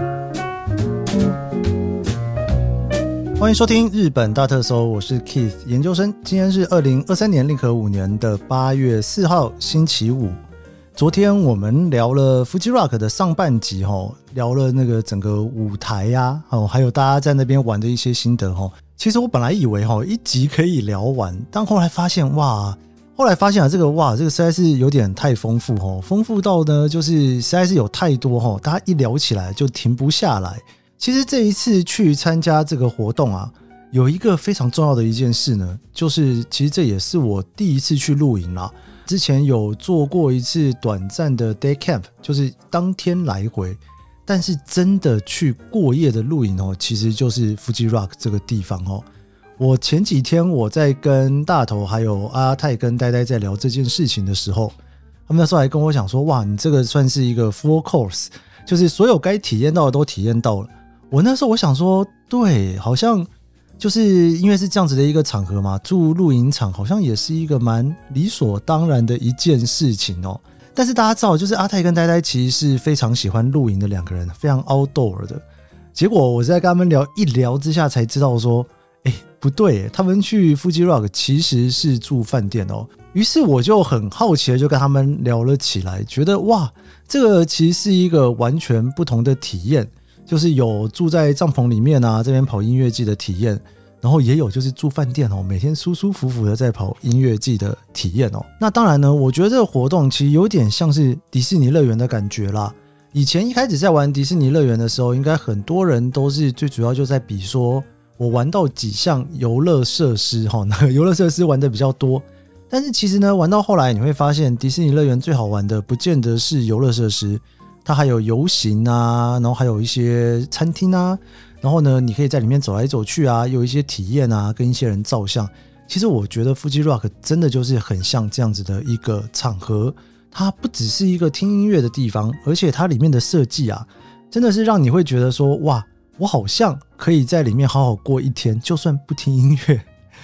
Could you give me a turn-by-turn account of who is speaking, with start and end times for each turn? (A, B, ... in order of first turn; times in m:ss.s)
0:03.4-0:10.4 A
0:11.0-0:49.0 A
0:49.6-0:54.7 A
0:55.3-1:03.3 A
1:03.8-1:15.4 A
1:15.9-2:19.9 A